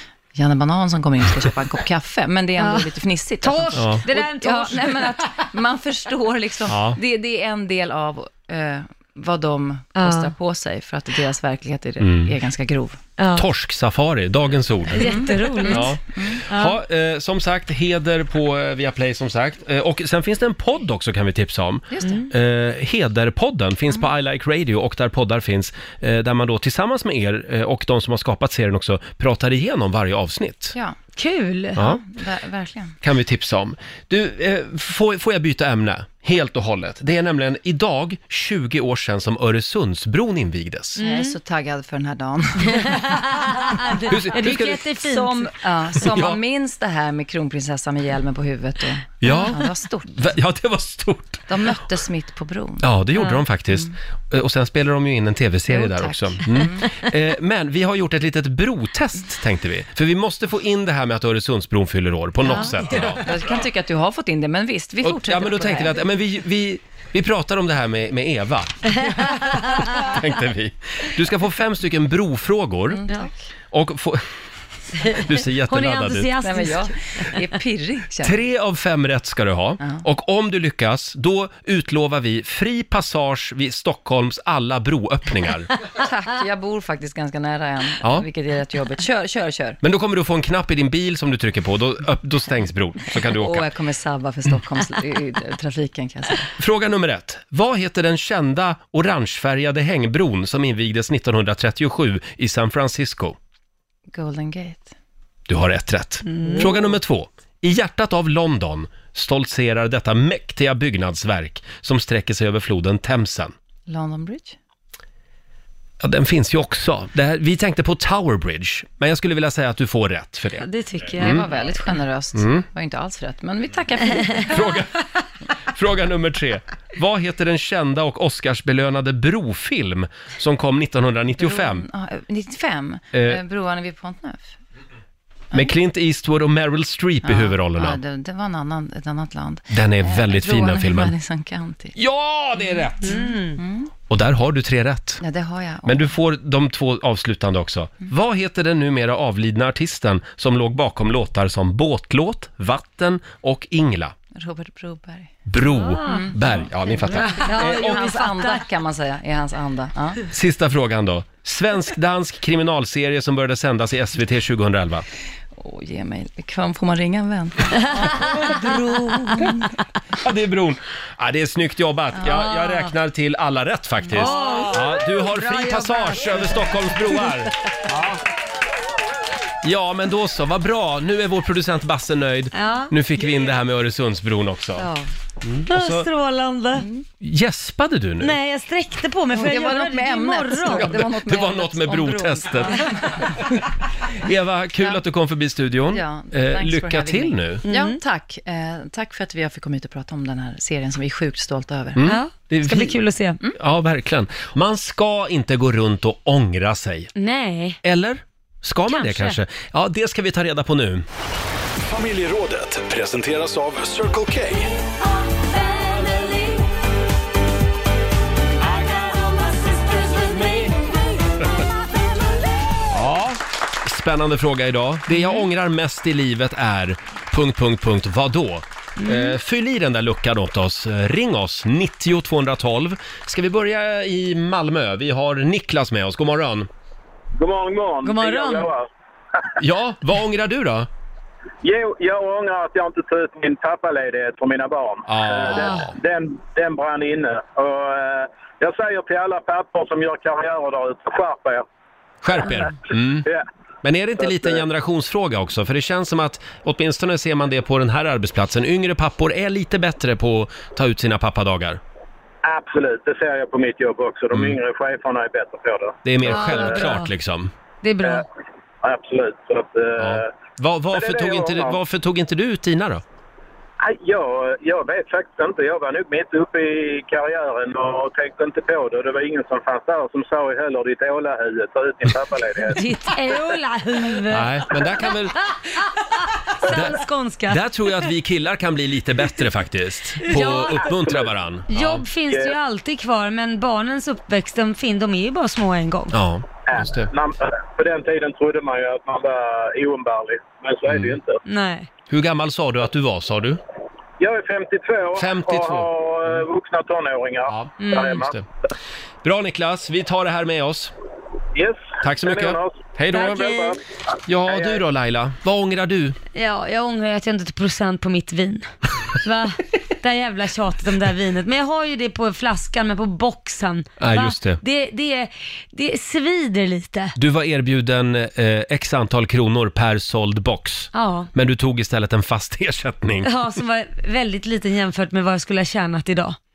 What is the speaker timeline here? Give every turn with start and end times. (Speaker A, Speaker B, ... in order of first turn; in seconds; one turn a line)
Speaker A: 0.3-13.0
Speaker B: 2.6-2.9
Speaker B: 3.4-5.1
Speaker C: 3.8-4.0
Speaker C: 6.7-7.0
Speaker B: 10.0-10.3
Speaker C: 12.0-12.3
Speaker B: 13.2-13.5
Speaker C: 13.3-30.8
Speaker B: 14.9-16.8
Speaker A: 14.9-16.4
Speaker A: 21.9-22.3
Speaker B: 31.2-31.8
Speaker C: 31.8-32.0
Speaker A: 31.8-33.0
Speaker C: 33.0-41.0
Speaker A: 41.0-50.4
Speaker B: 41.0-41.3
Speaker B: 42.7-45.5
Speaker C: 44.1-44.9
Speaker C: 46.0-46.4
Speaker C: 49.2-51.4
Speaker B: 49.2-49.6
Speaker A: 51.5-53.0
Speaker C: 52.8-63.2
Speaker B: 53.1-53.4
Speaker A: 53.6-53.9
Speaker A: 55.7-56.9
Speaker B: 62.5-62.8
Speaker A: 62.5-66.1
Speaker C: 65.0-73.0
Speaker B: 69.0-70.1
Speaker A: 72.9-73.3
Speaker C: 73.7-74.3
Speaker B: 75.0-76.9
Speaker C: 75.0-76.3
Speaker A: 76.4-78.5
Speaker C: 78.2-85.7
Speaker A: 79.8-80.1
Speaker A: 85.9-89.8
Speaker C: 88.0-88.3
Speaker C: 89.8-93.7
Speaker A: 93.1-96.5
Speaker C: 96.6-103.4
Speaker A: 104.1-104.9
Speaker C: 105.5-113.5
Speaker B: 106.3-106.7
Speaker A: 106.4-107.0
Speaker A: 113.9-114.6
Speaker C: 116.0-120.7
Speaker B: 120.6-121.5
Speaker A: 121.2-124.8
Speaker C: 121.2-121.5
Speaker C: 122.3-122.7
Speaker C: 124.5-125.0
Speaker C: 125.7-131.8
Speaker A: 131.4-134.6
Speaker C: 133.1-133.4
Speaker C: 135.5-138.0
Speaker A: 137.2-142.0
Speaker C: 139.7-141.2
Speaker C: 141.9-143.3
Speaker A: 142.8-143.9
Speaker B: 143.0-143.6
Speaker C: 144.1-145.2
Speaker A: 145.2-146.2
Speaker C: 145.8-154.2
Speaker A: 154.3-155.5
Speaker C: 155.5-158.1
Speaker B: 155.7-158.6
Speaker A: 156.0-160.2
Speaker C: 160.3-165.1
Speaker A: 165.6-169.8
Speaker B: 168.0-168.6
Speaker C: 170.2-178.2
Speaker B: 172.3-172.9
Speaker A: 174.1-174.8
Speaker B: 174.1-177.4
Speaker C: 179.6-184.9
Speaker B: 182.5-182.9
Speaker C: 185.4-186.1
Speaker B: 185.7-186.9
Speaker A: 186.7-187.1
Speaker C: 187.2-188.4
Speaker B: 188.2-191.0
Speaker A: 189.3-193.2
Speaker C: 190.7-193.6
Speaker B: 192.7-192.9
Speaker C: 194.2-197.6
Speaker A: 194.8-195.1
Speaker A: 195.9-202.2
Speaker B: 197.7-198.0
Speaker C: 202.0-207.1
Speaker B: 202.0-203.4
Speaker B: 207.2-207.8
Speaker C: 207.8-211.1
Speaker B: 208.9-209.4
Speaker D: 211.9-214.7
Speaker B: 215.2-216.6
Speaker B: 219.0-220.8
Speaker C: 222.9-236.7
Speaker B: 225.1-225.4
Speaker B: 229.0-229.4
Speaker E: 237.4-238.8
Speaker B: 238.0-238.7
Speaker C: 239.6-240.9
Speaker E: 241.6-251.7
Speaker C: 245.1-245.9
Speaker B: 245.5-245.9
Speaker C: 252.2-253.3
Speaker C: 253.8-261.8
Speaker E: 254.2-254.6
Speaker E: 262.4-266.8
Speaker C: 264.3-264.6
Speaker C: 266.0-267.5
Speaker B: 266.2-267.1
Speaker B: 267.8-268.2
Speaker E: 268.8-270.3
Speaker C: 270.0-273.0
Speaker E: 270.9-271.8
Speaker E: 273.8-282.8
Speaker B: 282.7-287.6
Speaker C: 284.3-285.4
Speaker C: 286.7-292.1
Speaker B: 290.2-291.0
Speaker E: 290.9-291.3
Speaker B: 291.7-296.1
Speaker E: 292.3-292.6
Speaker C: 296.1-297.1
Speaker E: 296.7-301.4
Speaker C: 300.9-301.2
Speaker B: 301.5-301.9
Speaker C: 302.1-303.6
Speaker E: 304.2-308.3
Speaker C: 305.2-305.9
Speaker C: 307.5-308.4
Speaker B: 307.8-308.2
Speaker C: 309.2-310.9
Speaker E: 311.6-313.8
Speaker C: 312.0-313.6
Speaker B: 313.1-313.7
Speaker C: 314.3-316.2
Speaker E: 314.5-314.8
Speaker B: 316.3-327.1
Speaker C: 324.0-324.6
Speaker C: 327.2-333.3
Speaker B: 330.9-331.3
Speaker B: 333.2-336.4